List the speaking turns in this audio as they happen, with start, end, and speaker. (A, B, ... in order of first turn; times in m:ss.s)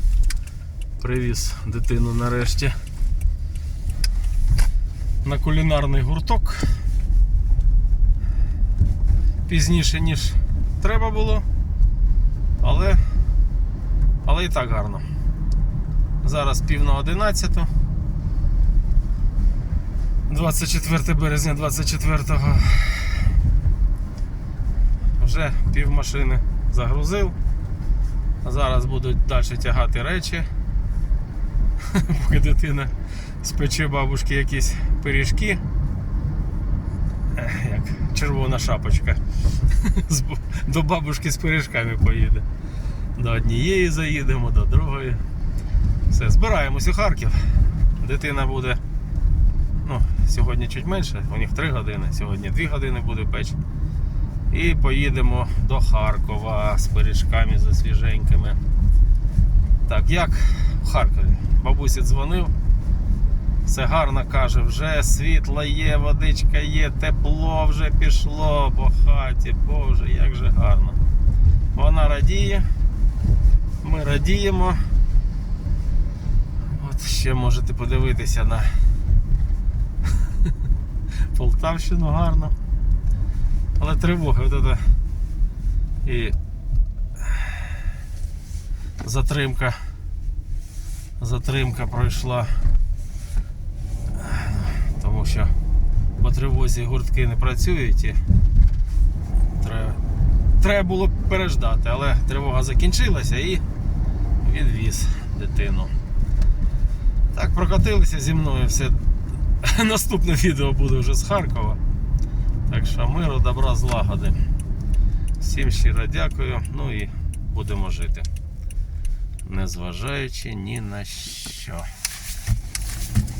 0:01.0-0:02.8 A
0:05.2-0:06.7 A
0:09.5-0:11.4 A
0:12.6-0:13.0 A
0:14.2-0:15.0 A
0:16.2-0:17.7 A
0:20.3-0:23.3 A
0:25.2-0:27.4 A
0:28.4-0:30.5 A
0:31.8-0:35.6 A
0:37.3-0:42.4 A
0:43.2-0:45.2 A
0:46.1-0:48.8 A
0:49.8-0:53.6 A
0:54.5-0:58.6 A
0:59.8-1:02.5 A
1:03.6-1:11.0 A
1:11.7-1:12.7 A
1:13.8-1:14.8 A
1:16.6-1:18.7 A
1:20.1-1:20.6 A
1:21.3-1:22.5 A
1:23.8-1:24.9 A
1:26.0-1:26.4 A
1:27.2-1:27.7 A
1:29.0-1:29.8 A
1:31.2-1:32.6 A
1:34.1-1:35.5 A
1:36.2-1:38.2 A
1:39.5-1:40.0 A
1:40.6-1:43.6 A
1:44.4-1:45.9 A
1:47.3-1:51.8 A
1:52.7-1:54.4 A
1:55.4-1:58.3 A
1:59.4-2:01.9 A